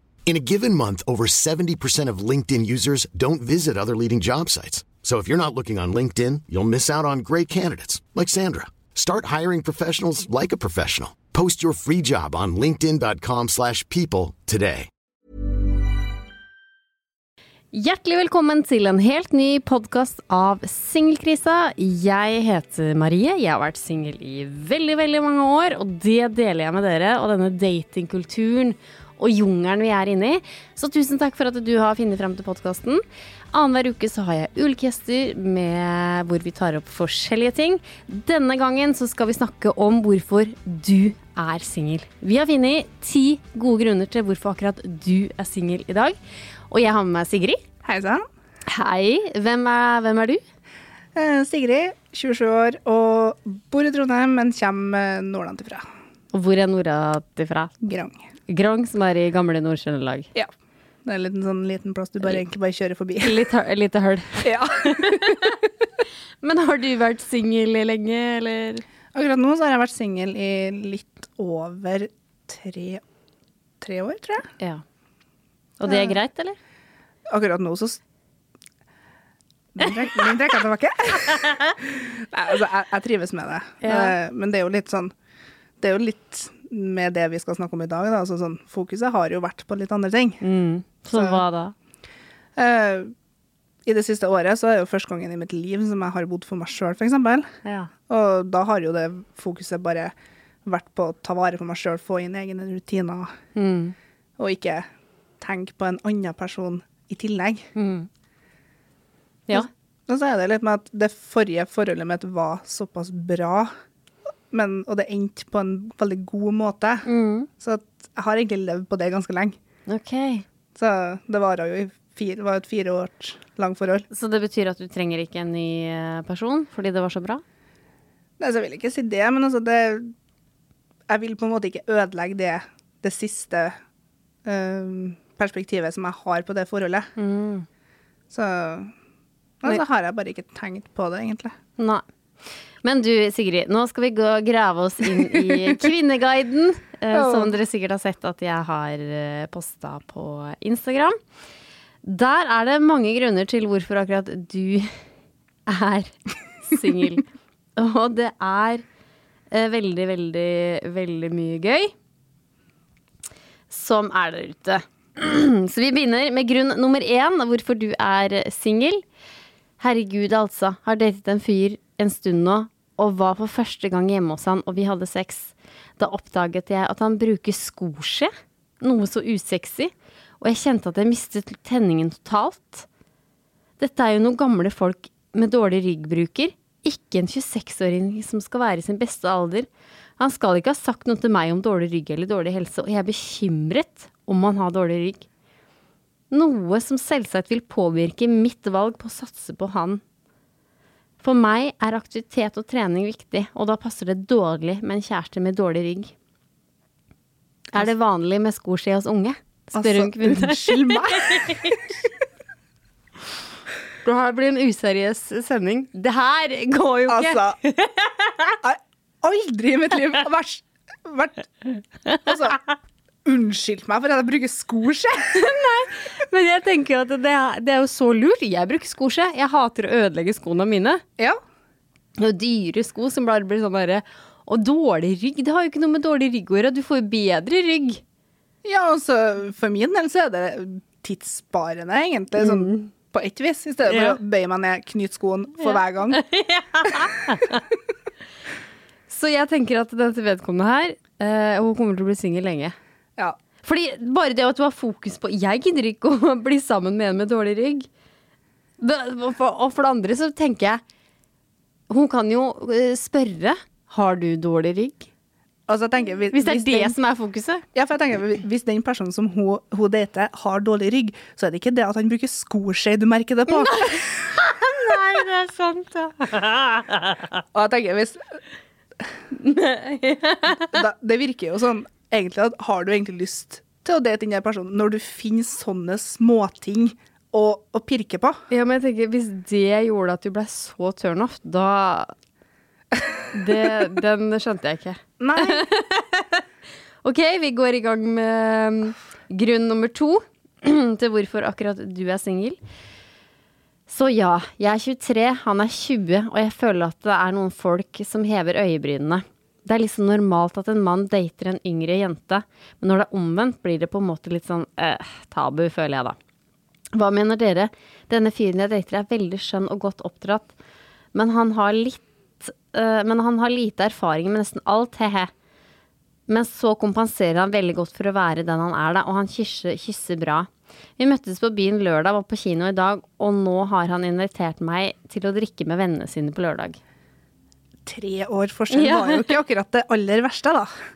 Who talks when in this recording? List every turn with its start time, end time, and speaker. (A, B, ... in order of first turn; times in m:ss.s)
0:00.3-0:14.9 A
0:17.7-0:46.2 B
0:46.7-0:47.6 B
0:47.8-0:48.2 C
0:48.7-0:50.4 B
0:51.2-0:55.9 C
0:56.3-0:57.7 B
0:57.8-0:58.2 C
0:58.5-1:00.3 B
1:01.0-1:03.4 C
1:03.2-1:05.6 B
1:04.4-1:05.5 C
1:06.4-1:08.8 B
1:09.1-1:13.0 C
1:13.8-1:14.5 C
1:15.8-1:16.6 B
1:15.9-1:16.2 C
1:17.3-1:18.0 C
1:19.7-1:25.1 C
1:23.8-1:24.2 B
1:25.8-1:30.4 C
1:30.4-1:31.7 B
1:31.1-1:31.4 C
1:32.6-1:33.1 C
1:33.8-1:37.5 C
1:37.6-1:37.9 B
1:38.1-1:40.1 C
1:40.6-1:43.3 C
1:43.6-1:44.0 B
1:44.4-1:44.9 C
1:45.4-1:47.7 C
1:47.8-1:48.1 B
1:49.5-1:53.7 C
1:54.5-1:57.1 C
1:57.0-1:57.5 B
1:57.6-1:59.6 C
1:59.9-2:00.4 B
2:00.8-2:04.0 C
2:04.1-2:07.4 B
2:08.4-2:10.1 C
2:11.1-2:13.8 C
2:14.4-2:17.1 C
2:17.2-2:17.7 B
2:18.3-2:18.9 C
2:19.6-2:21.6 C
2:21.8-2:22.0 B
2:22.8-2:31.2 B
2:25.3-2:25.7 C
2:27.1-2:27.5 C
2:32.0-2:34.9 B
2:35.7-2:36.1 B
2:36.6-2:37.3 B
2:37.8-2:38.8 B
2:39.5-2:41.9 B
2:43.7-2:49.0 B
2:49.8-3:02.9 B
3:03.8-3:09.7 B
3:10.2-3:15.3 B
3:16.3-3:20.0 B
3:21.2-3:26.1 B
3:27.7-3:31.8 B
3:29.7-3:31.8 C
3:34.0-3:38.6 B
3:37.1-3:37.6 C
3:38.6-3:41.5 C
3:42.1-3:42.5 B
3:42.2-3:42.6 C
3:43.2-3:45.5 C
3:45.3-3:51.0 B
3:52.2-3:58.0 B
3:58.6-4:06.2 C
4:02.4-4:02.9 B
4:03.9-4:04.2 B
4:05.6-4:07.6 B
4:09.1-4:12.8 B
4:13.6-4:17.9 B
4:18.8-4:20.8 B
4:21.9-4:25.1 B
4:25.7-4:27.0 C
4:26.3-4:27.6 B
4:27.7-4:34.1 C
4:33.5-4:37.2 B
4:37.5-4:38.4 C
4:39.3-4:40.8 B
4:40.6-4:48.4 C
4:48.5-4:52.1 B
4:53.3-4:56.4 B
4:55.2-4:55.7 C
4:57.0-5:02.6 B
5:03.9-5:16.2 B
5:16.9-5:20.5 B
5:21.1-5:25.3 B
5:26.3-5:36.8 B
5:37.9-5:40.7 C
5:38.7-5:39.4 B